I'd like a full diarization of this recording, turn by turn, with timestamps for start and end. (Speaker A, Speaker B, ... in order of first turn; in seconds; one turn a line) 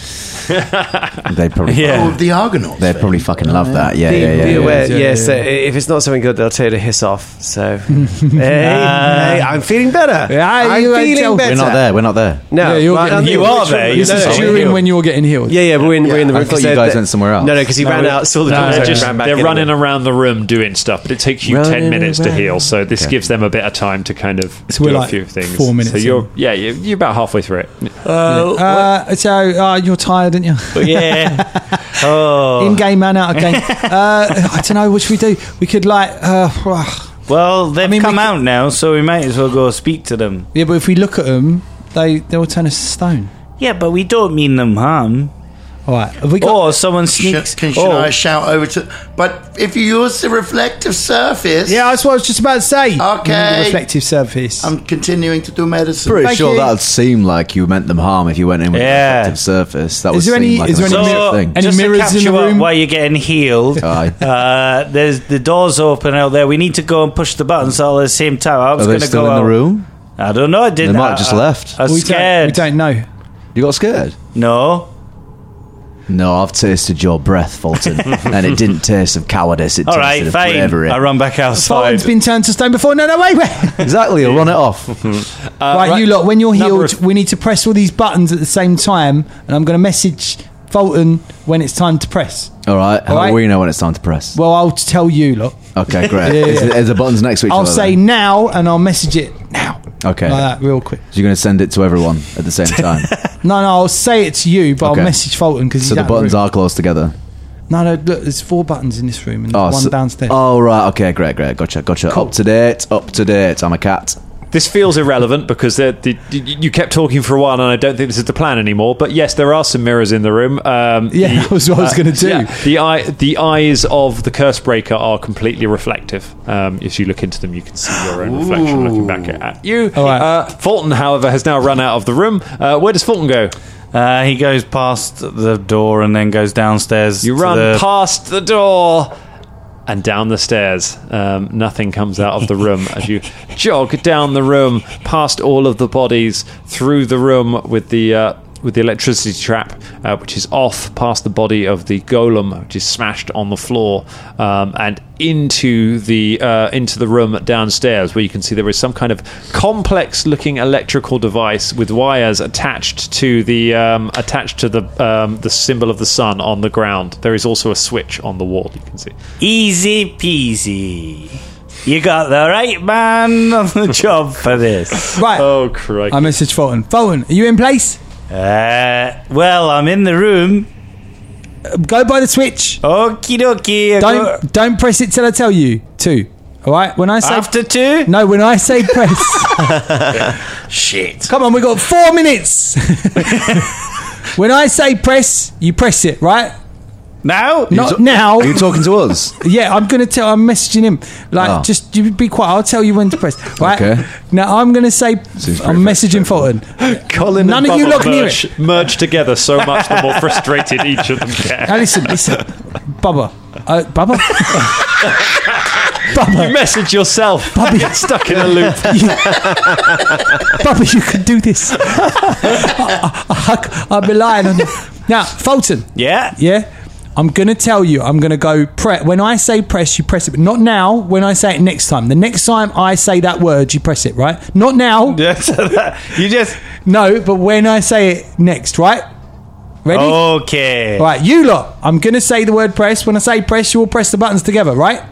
Speaker A: 0.5-1.2
Speaker B: 1.3-2.2
Speaker C: 1.7-2.2
Speaker D: 1.8-3.9
Speaker B: 2.8-4.8
Speaker E: 4.1-11.9
Speaker F: 4.1-5.5
Speaker F: 7.9-9.2
Speaker C: 8.6-9.5
Speaker F: 10.3-11.5
Speaker B: 11.4-12.6
Speaker E: 12.5-14.9
Speaker F: 12.6-15.6
Speaker C: 13.1-14.8
Speaker E: 15.4-19.7
Speaker D: 16.0-16.4
Speaker B: 16.3-17.7
Speaker C: 17.8-18.2
Speaker A: 18.4-27.9
Speaker F: 18.4-19.1
Speaker E: 21.4-22.7
Speaker F: 24.7-26.3
Speaker C: 28.0-28.9
Speaker F: 28.3-31.9
Speaker C: 30.7-34.4
Speaker F: 32.5-37.1
Speaker C: 37.3-40.5
Speaker F: 37.8-38.3
Speaker F: 40.5-43.3
Speaker C: 43.6-45.3
Speaker F: 45.9-46.7
Speaker C: 46.4-48.1
Speaker D: 47.1-51.9
Speaker F: 51.7-54.7
Speaker D: 53.0-53.8
Speaker D: 54.6-56.2
Speaker B: 56.0-61.6
Speaker F: 56.2-56.7
Speaker C: 58.7-59.4
Speaker F: 60.1-62.7
Speaker C: 60.8-69.6
Speaker B: 63.8-64.2
Speaker B: 68.8-69.9
Speaker C: 70.2-72.7
Speaker B: 70.8-71.8
Speaker F: 71.8-73.1
Speaker B: 73.5-74.2
Speaker C: 74.3-74.9
Speaker B: 76.1-81.0
Speaker C: 79.8-82.1
Speaker F: 81.5-83.9
Speaker B: 83.8-85.0
Speaker A: 85.6-87.0
Speaker F: 85.7-92.5
Speaker B: 92.6-94.3
Speaker F: 93.0-93.4
Speaker F: 94.3-96.9
Speaker B: 95.7-98.0
Speaker F: 97.5-101.0
Speaker B: 100.0-100.5
Speaker B: 101.1-103.1
Speaker F: 103.4-106.4
Speaker B: 104.8-105.1
Speaker B: 105.8-107.1
Speaker F: 107.7-110.4
Speaker B: 109.5-114.2
Speaker A: 114.5-133.6
Speaker F: 121.1-122.6
Speaker D: 128.0-129.3
Speaker F: 129.9-130.3
Speaker C: 133.9-137.8
Speaker A: 137.2-139.1
Speaker A: 139.9-169.1
Speaker C: 169.4-175.0
Speaker F: 175.1-175.5
Speaker A: 175.3-176.3
Speaker F: 176.1-178.0
Speaker C: 178.3-180.7
Speaker F: 181.7-182.8
Speaker C: 182.8-184.4
Speaker F: 184.0-189.6
Speaker C: 187.2-188.1
Speaker D: 190.1-191.3
Speaker F: 191.3-193.7
Speaker F: 194.3-196.5
Speaker C: 197.2-197.7
Speaker F: 197.7-198.8
Speaker B: 197.7-199.3
Speaker F: 199.4-206.7
Speaker B: 201.4-201.7
Speaker B: 203.6-204.1
Speaker B: 205.4-206.5
Speaker A: 206.8-212.3
Speaker F: 207.3-208.4
Speaker F: 211.6-215.1
Speaker A: 214.6-219.3
Speaker F: 216.0-216.6
Speaker F: 217.5-218.1
Speaker F: 218.7-235.2
Speaker C: 225.9-226.3
Speaker C: 235.1-236.6
Speaker F: 236.8-239.1
Speaker F: 239.8-240.3
Speaker C: 239.9-241.1
Speaker F: 241.0-245.0